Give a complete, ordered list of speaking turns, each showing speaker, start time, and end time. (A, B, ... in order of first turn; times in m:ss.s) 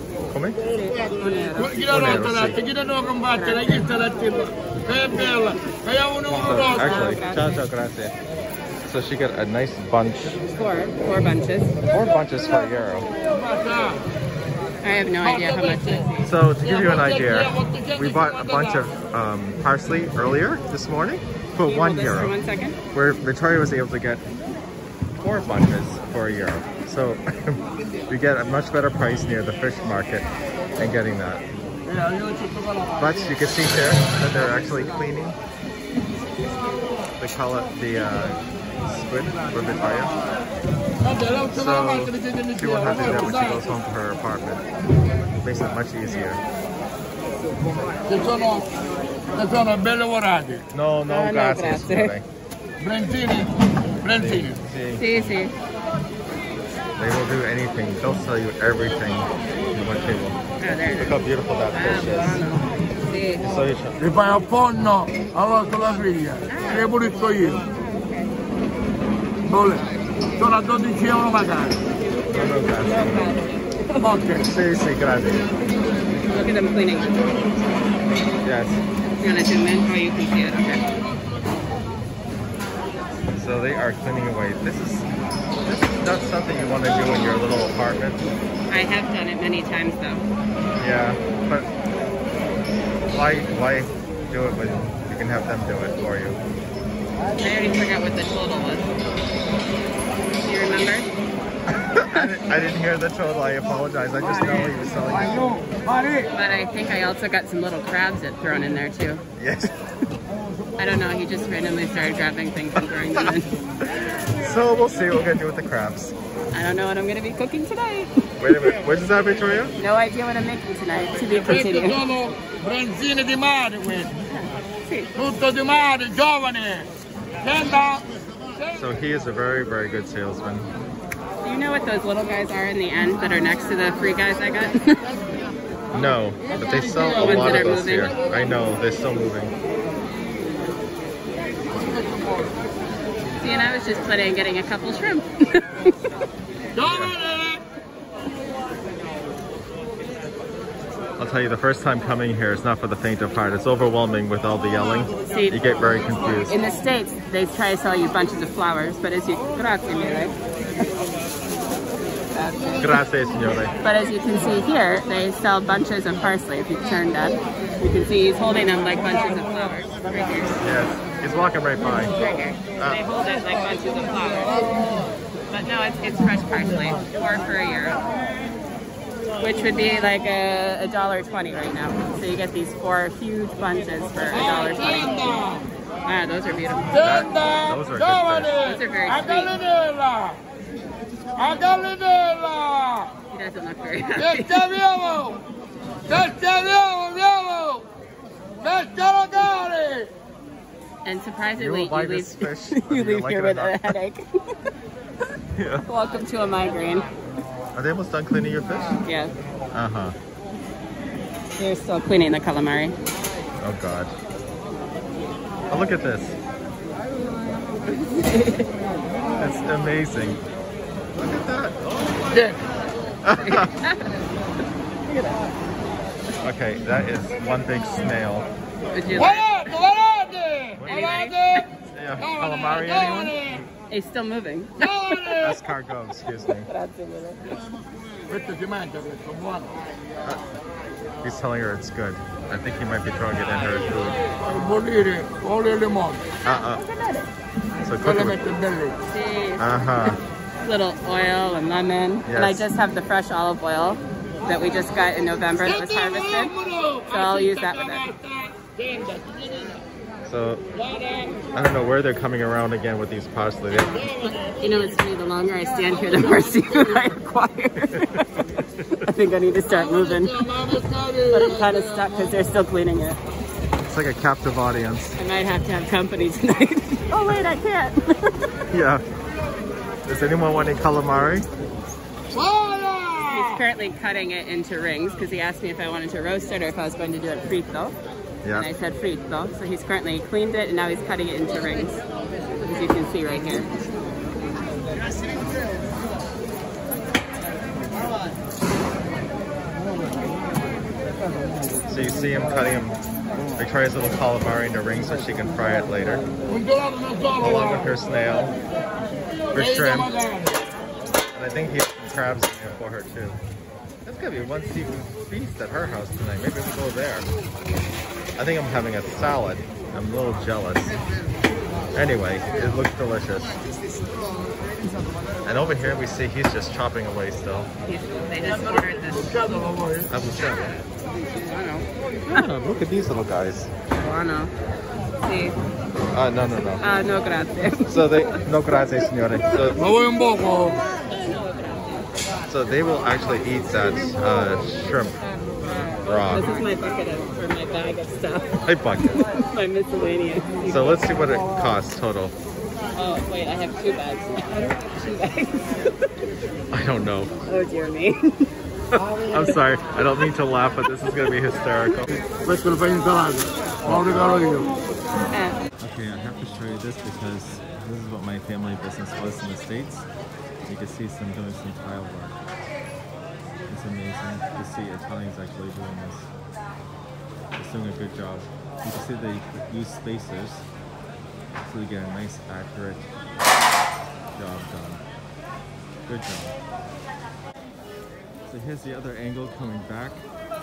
0:00.3-0:00.6 A
0:00.7-0:02.0 B
0:01.5-0:07.2 C
0:01.8-0:02.6 A
0:03.3-0:03.8 B
0:06.3-0:08.1 A
0:06.5-0:07.6 B
0:08.8-0:10.4 A
0:10.5-0:11.8 B
0:11.8-0:13.1 A
0:13.2-0:14.0 C
0:14.8-0:16.3 B
0:15.2-0:16.0 C
0:16.2-0:22.4 A
0:16.6-0:18.9 C
0:21.6-0:22.8 B
0:22.9-0:24.2 A
0:25.2-0:31.4 A
0:31.9-0:33.2 C
0:33.0-0:35.4 A
0:37.2-0:40.2 A
0:41.0-0:43.7 C
0:41.2-0:44.6 A
0:45.4-0:46.4 A
0:48.0-0:48.7 C
0:49.3-0:50.6 C
0:50.7-0:52.2 A
0:51.1-0:52.1 B
0:52.8-0:54.6 C
0:54.0-0:55.4 A
0:55.0-0:55.5 B
0:57.0-1:00.4 A
1:00.6-1:03.5 B
1:00.9-1:02.4 A
1:03.4-1:04.0 A
1:04.0-1:07.7 C
1:06.5-1:06.9 B
1:09.4-1:11.8 C
1:12.3-1:13.3 A
1:12.8-1:14.1 B
1:14.0-1:14.5 C
1:14.4-1:15.5 A
1:16.2-1:17.4 B
1:18.4-1:18.8 A
1:19.2-1:20.8 B
1:23.3-1:25.1 A
1:25.6-1:28.2 A
1:28.7-1:30.2 B
1:30.8-1:31.7 A
1:33.1-1:36.4 A
1:37.4-1:38.9 B
1:40.4-1:41.1 B
1:41.7-1:45.5 A
1:42.0-1:42.3 B
1:45.2-1:46.2 C
1:46.3-1:49.2 B
1:49.4-1:49.7 A
1:50.8-1:53.5 B
1:53.8-1:56.1 A
1:56.5-1:58.7 B
1:58.4-1:59.7 A
1:59.8-2:02.0 B
2:01.2-2:04.1 C
2:04.3-2:05.1 B
2:05.2-2:06.9 C
2:07.4-2:08.7 C
2:08.7-2:10.7 A
2:11.4-2:15.1 B
2:15.9-2:19.5 A
2:16.6-2:18.3 B
2:16.6-2:18.4 C
2:21.7-2:22.7 C
2:23.4-2:26.0 B
2:26.7-2:27.6 C
2:26.8-2:27.1 A
2:31.2-2:36.5 A
2:35.3-2:35.6 B
2:36.4-2:40.3 B
2:42.3-2:42.8 B
2:42.8-2:43.8 A
2:43.8-2:50.7 B
2:50.6-2:52.2 A
2:52.0-2:54.6 B
2:55.5-2:58.0 B
2:59.4-3:05.4 B
3:04.3-3:05.7 C
3:06.0-3:07.2 B
3:06.9-3:10.4 C
3:07.0-3:08.6 A
3:08.6-3:09.5 B
3:11.3-3:13.1 C
3:13.3-3:14.6 B
3:14.2-3:15.4 C
3:16.1-3:17.9 C
3:18.6-3:20.1 C
3:21.0-3:24.3 B
3:21.6-3:23.9 A
3:25.5-3:25.8 A
3:25.8-3:27.1 B
3:27.7-3:29.0 A
3:29.0-3:29.3 B
3:29.7-3:30.2 A
3:31.6-3:33.0 B
3:33.6-3:34.1 A
3:35.7-3:36.4 A
3:37.9-3:38.7 B
3:39.4-3:40.4 A
3:41.2-3:42.3 A
3:42.3-3:42.6 C
3:43.2-3:43.7 A
3:43.4-3:44.0 B
3:45.0-3:45.4 B
3:46.4-3:48.5 A
3:48.9-3:49.7 B
3:49.1-3:53.6 C
3:50.8-3:51.2 A
3:50.8-3:51.6 B
3:51.9-3:53.6 A
3:53.9-3:55.4 B
3:54.8-3:55.6 C
3:55.4-3:56.7 A
3:56.5-3:57.6 B
3:58.3-3:59.8 C
4:00.2-4:00.5 A
4:01.2-4:04.2 A
4:04.4-4:06.3 C
4:06.4-4:06.8 A
4:06.8-4:07.3 B
4:07.8-4:08.5 A
4:08.0-4:09.0 C
4:09.1-4:09.6 B
4:09.6-4:10.2 A
4:10.6-4:16.5 B
4:12.2-4:12.6 A
4:15.6-4:19.8 C
4:17.1-4:18.0 B
4:20.2-4:20.6 A
4:20.7-4:21.5 C
4:21.5-4:24.1 A
4:23.7-4:28.4 B
4:23.9-4:24.9 C
4:25.8-4:27.2 C
4:27.9-4:28.2 A
4:29.0-4:30.4 B
4:29.7-4:32.4 C
4:31.3-4:33.2 B
4:33.8-4:35.2 A
4:35.2-4:38.4 B
4:38.7-4:39.0 A
4:40.0-4:41.5 A
4:42.3-4:43.6 C
4:43.2-4:48.0 B
4:48.4-4:48.7 A
4:48.5-4:52.0 B
4:52.6-4:53.7 B
5:01.9-5:03.0 A
5:03.6-5:06.2 A
5:06.5-5:07.9 C
5:07.4-5:08.6 A
5:09.5-5:10.6 C
5:09.5-5:10.2 A
5:11.3-5:13.4 A
5:14.0-5:17.2 A
5:18.4-5:21.0 A
5:21.9-5:23.6 A
5:25.4-5:27.7 A
5:27.8-5:29.7 B
5:28.6-5:30.1 C
5:30.1-5:30.8 A
5:31.4-5:32.4 B
5:32.3-5:33.7 A
5:33.9-5:34.5 B
5:35.2-5:35.6 B
5:36.1-5:36.8 A
5:36.8-5:38.0 B
5:37.9-5:39.8 A
5:39.7-5:40.8 C
5:41.1-5:42.1 B
5:42.5-5:45.2 A
5:46.0-5:46.5 A
5:46.3-5:51.0 B
5:48.6-5:49.2 A
5:50.6-5:52.3 A
5:53.0-5:56.1 B
5:56.7-5:57.3 A
5:57.4-5:58.5 B
5:58.9-6:02.2 A
6:02.3-6:04.7 C
6:03.8-6:04.4 A
6:05.1-6:10.1 A
6:05.3-6:05.6 B
6:10.6-6:12.4 A
6:13.7-6:16.3 A
6:17.6-6:20.6 A
6:21.6-6:23.1 A
6:24.3-6:25.0 A
6:26.0-6:26.5 A
6:28.4-6:30.2 A